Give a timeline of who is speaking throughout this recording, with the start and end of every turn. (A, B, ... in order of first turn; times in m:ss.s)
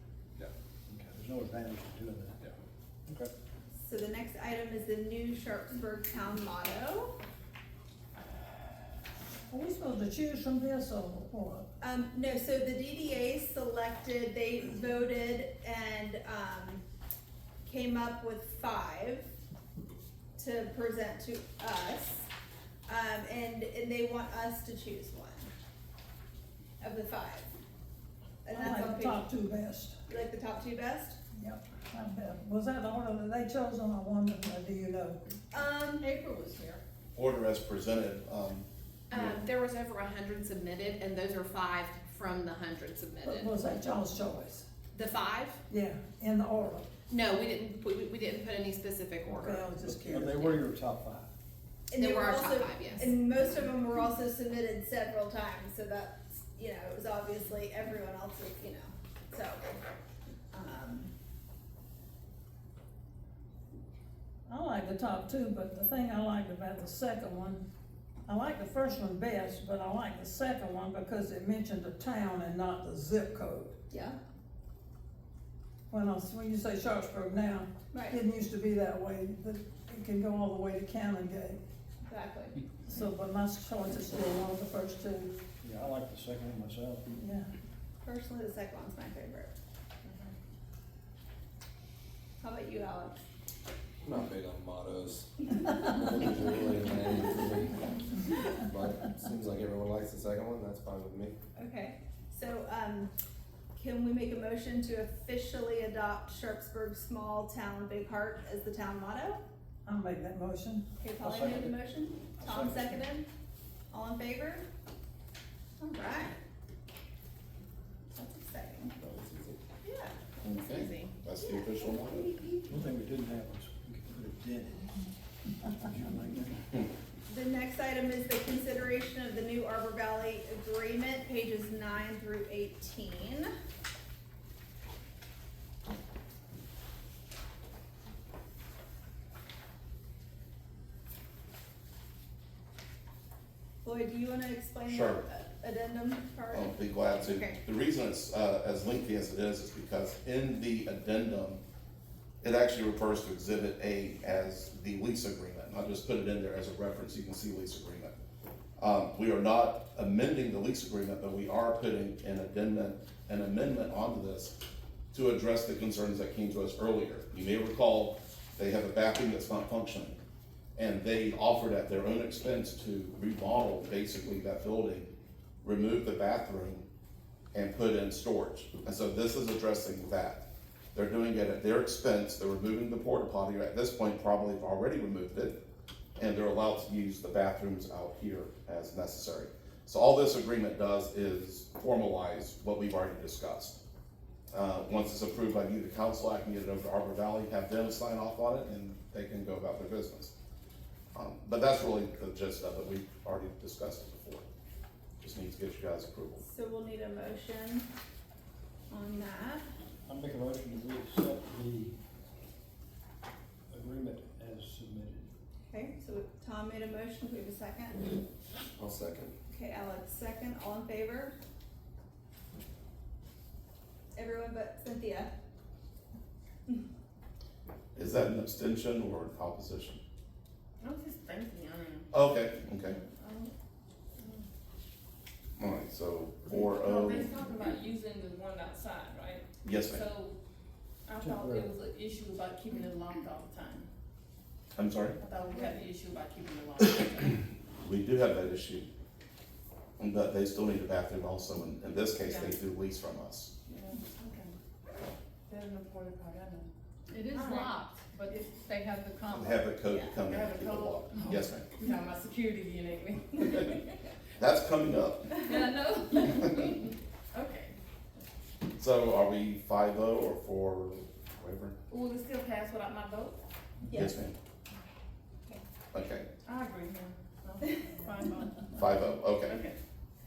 0:00.9-0:02.4 A
0:03.7-0:07.1 B
0:09.5-0:11.7 C
0:11.8-0:16.8 B
0:17.6-0:19.3 B
0:20.4-0:22.3 B
0:22.9-0:25.5 B
0:26.8-0:27.5 B
0:28.4-0:29.3 B
0:28.5-0:30.0 C
0:30.1-0:31.2 B
0:31.4-0:35.2 C
0:35.5-0:36.1 B
0:36.2-0:36.7 D
0:37.1-0:38.6 E
0:39.1-0:43.5 D
0:43.2-0:44.6 C
0:44.9-0:45.6 D
0:45.7-0:46.9 C
0:47.1-0:49.7 D
0:49.2-0:50.6 C
0:49.8-0:51.3 A
0:51.9-0:59.8 B
0:52.0-0:53.1 D
1:00.5-1:01.1 B
1:04.5-1:07.6 C
1:08.3-1:13.7 C
1:13.9-1:14.2 B
1:15.9-1:21.6 C
1:17.9-1:18.2 B
1:22.0-1:22.6 B
1:22.8-1:25.3 C
1:25.6-1:27.2 A
1:27.1-1:27.5 C
1:28.0-1:29.5 B
1:30.0-1:30.3 F
1:32.4-1:33.2 B
1:34.0-1:35.3 G
1:35.8-1:37.8 G
1:38.6-1:41.4 G
1:41.6-1:43.1 B
1:43.8-1:49.4 B
1:49.8-1:50.8 C
1:51.0-1:53.3 B
1:51.2-1:51.8 A
1:52.4-1:53.0 A
1:53.9-1:54.6 B
1:55.8-1:56.4 B
1:58.1-1:58.9 B
1:59.0-1:59.6 G
1:59.8-2:00.1 B
2:00.4-2:02.3 E
2:00.5-2:01.1 D
2:01.4-2:02.6 B
2:02.7-2:05.0 A
2:05.7-2:06.6 A
2:07.3-2:13.5 B
2:23.8-2:27.5 B
2:24.8-2:25.2 E
2:26.5-2:31.6 E
2:32.4-2:38.1 E
2:38.8-2:44.5 E
2:45.1-2:50.2 E
2:50.8-2:55.1 E
2:55.6-2:56.9 E
2:57.5-3:05.6 E
3:06.2-3:13.8 E
3:14.5-3:20.3 E
3:21.1-3:24.4 E
3:25.2-3:26.4 E
3:26.4-3:27.8 B
3:28.9-3:29.6 B
3:30.0-3:32.0 A
3:33.7-3:35.3 A
3:35.6-3:38.1 B
3:38.8-3:39.3 G
3:39.5-3:41.3 B
3:44.1-3:45.3 B
3:48.0-3:50.0 E
3:50.8-3:52.2 F
3:52.1-3:53.0 E
3:52.9-3:53.5 F
3:54.2-3:54.4 F
3:55.6-3:57.3 E
3:56.5-4:00.4 F
3:59.6-4:00.0 E
4:01.1-4:03.9 F
4:01.2-4:01.7 A
4:04.8-4:05.2 E
4:05.2-4:07.4 F
4:07.8-4:08.9 E
4:10.0-4:13.5 E
4:12.2-4:12.6 F
4:13.7-4:14.5 F
4:15.5-4:19.5 F
4:17.4-4:17.8 D
4:19.3-4:21.7 E
4:20.2-4:23.9 F
4:24.4-4:25.3 E
4:25.3-4:28.2 F
4:28.8-4:31.7 E
4:31.9-4:33.4 F
4:33.9-4:34.1 B
4:33.9-4:34.3 E
4:35.9-4:36.2 E
4:36.4-4:38.7 F
4:38.7-4:39.6 E
4:39.4-4:39.8 F